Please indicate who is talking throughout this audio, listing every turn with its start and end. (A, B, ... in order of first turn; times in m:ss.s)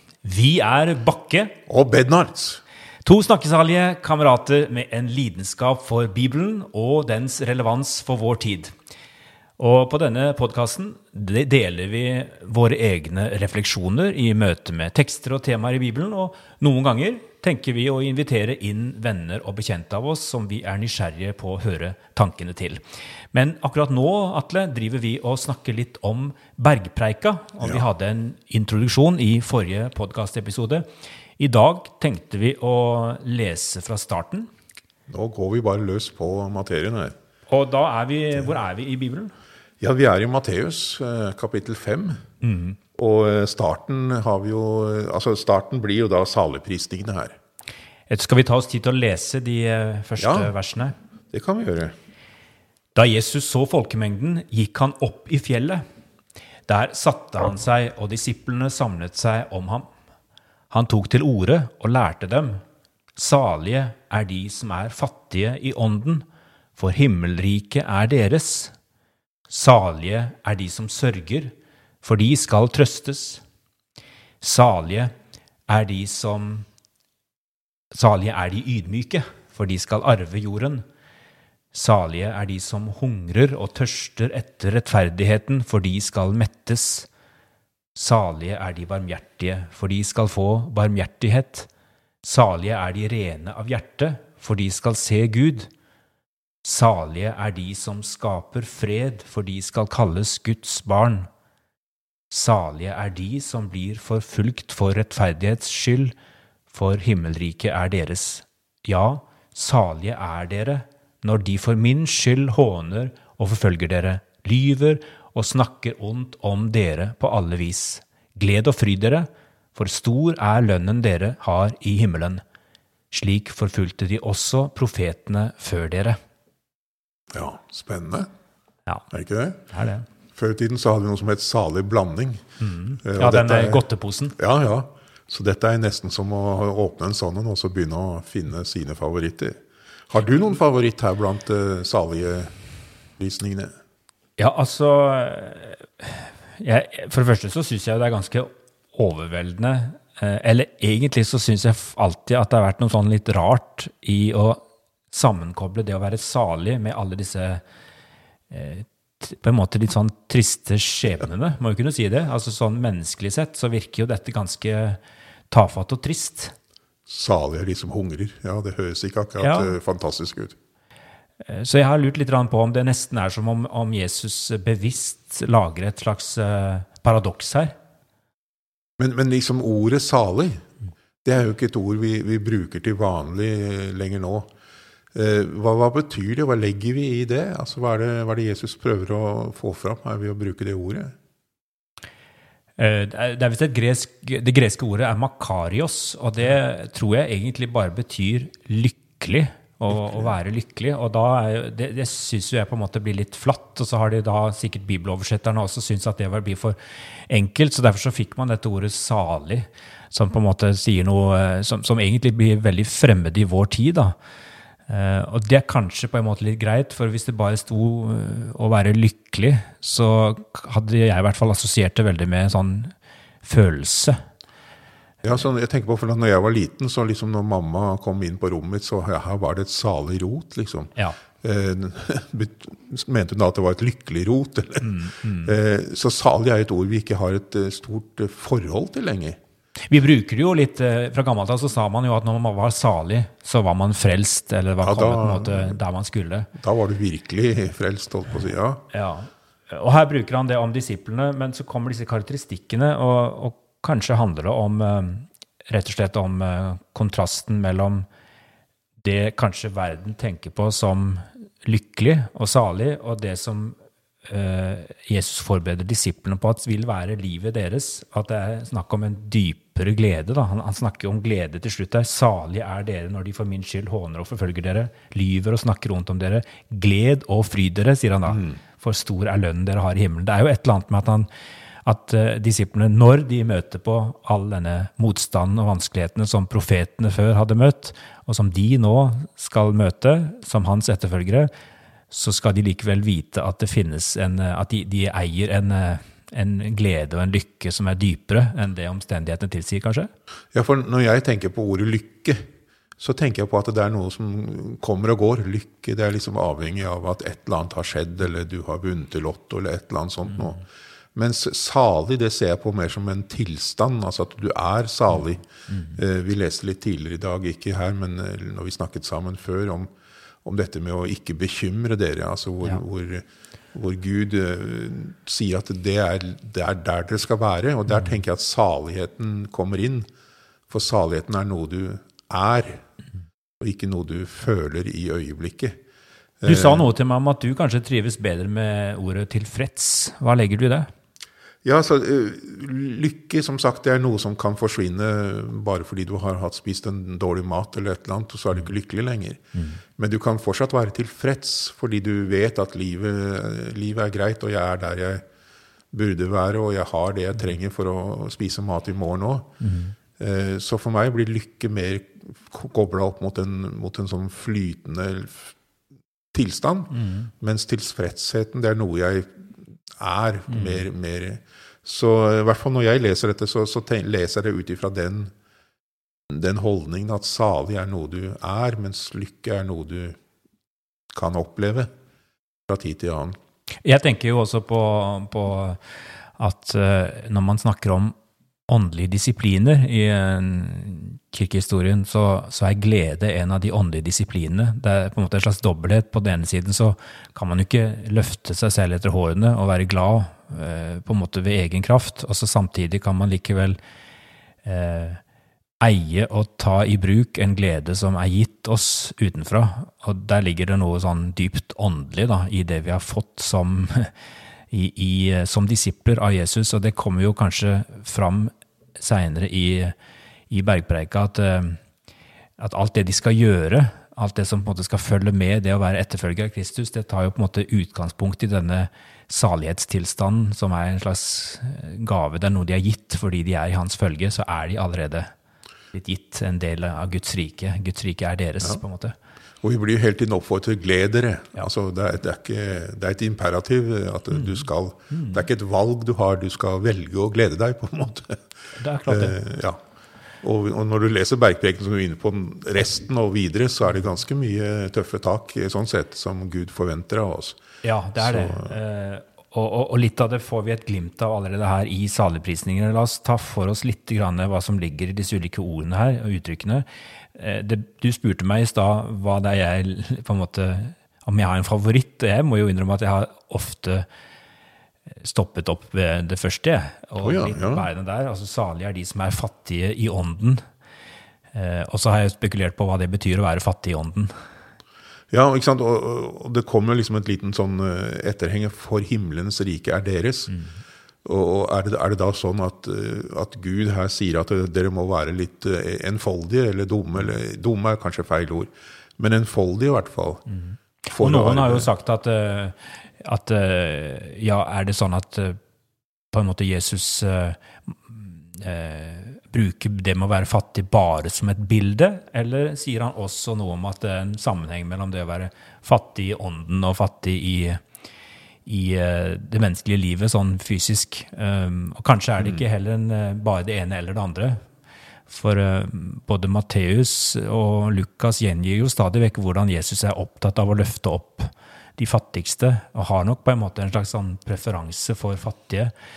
0:00.2-0:01.6 A
0:01.7-0:02.6 B
0:03.0-0:08.7 A
0:09.6-0:22.8 A
0:23.3-0:30.9 A
0:31.4-0:34.5 A
0:35.1-0:37.2 B
0:37.5-0:39.3 A
0:39.8-0:42.2 B
0:42.4-0:42.8 A
0:43.0-0:47.4 B
0:48.1-0:50.9 A
0:50.2-0:50.5 B
0:51.3-0:52.0 B
0:53.0-0:55.8 A
0:56.7-0:59.9 A
1:00.7-1:02.6 A
1:03.2-1:06.2 A
1:06.8-1:08.7 A
1:09.5-1:13.4 A
1:14.4-1:15.1 A
1:15.7-1:16.7 A
1:17.9-1:20.8 A
1:21.7-1:27.1 A
1:28.0-1:31.7 A
1:32.2-1:35.7 A
1:36.6-1:41.3 A
1:42.3-1:46.1 A
1:46.7-2:02.4 A
2:03.1-2:06.2 A
2:07.3-2:08.3 B
2:09.1-2:09.7 B
2:09.7-2:10.1 A
2:10.3-2:12.4 B
2:12.6-2:14.4 A
2:13.0-2:13.8 B
2:14.4-2:23.7 B
2:24.4-2:37.6 A
2:38.5-2:45.0 A
2:45.5-2:46.5 A
2:47.1-2:50.6 B
2:49.4-2:49.7 A
2:51.4-2:57.7 A
2:59.0-3:00.7 B
3:01.2-3:04.5 B
3:05.1-3:11.2 B
3:12.8-3:34.2 A
3:19.9-3:20.3 B
3:34.9-3:44.2 A
3:45.2-3:59.4 B
3:54.8-3:55.5 A
3:59.9-4:06.5 A
4:04.8-4:05.8 B
4:06.5-4:08.8 B
4:08.9-4:18.1 A
4:19.0-4:41.3 A
4:38.3-4:38.6 B
4:41.8-4:51.5 A
4:52.1-5:00.1 A
5:00.5-5:02.4 B
5:03.0-5:10.6 B
5:11.2-5:19.9 B
5:15.7-5:16.0 A
5:20.4-5:30.1 B
5:30.7-5:32.8 B
5:33.6-5:35.8 B
5:36.4-5:36.9 B
5:36.4-5:40.9 A
5:41.6-5:49.4 B
5:49.6-5:49.8 A
5:50.0-5:55.2 B
5:55.9-5:59.5 B
5:59.6-6:00.0 A
6:00.2-6:05.5 B
6:06.3-6:15.3 B
6:06.9-6:07.3 A
6:10.5-6:10.8 A
6:16.3-6:20.2 B
6:21.1-6:21.9 B
6:22.7-6:23.4 B
6:23.8-6:28.2 A
6:28.7-6:43.8 A
6:44.6-6:45.2 A
6:45.8-6:54.1 A
6:54.7-7:00.0 A
7:00.5-7:01.8 A
7:02.6-7:15.3 A
7:15.9-7:19.2 A
7:19.6-7:28.4 B
7:24.3-7:25.4 A
7:28.8-7:29.4 A
7:29.1-7:29.8 B
7:30.4-7:37.6 B
7:37.8-7:54.1 A
7:38.2-7:38.8 B
7:55.2-8:00.6 A
7:57.2-7:57.8 B
8:01.5-8:04.3 A
8:05.3-8:10.5 B
8:11.2-8:20.4 B
8:20.5-8:25.6 A
8:21.1-8:21.9 B
8:26.3-8:37.8 A
8:38.7-8:44.6 A
8:45.3-8:55.9 A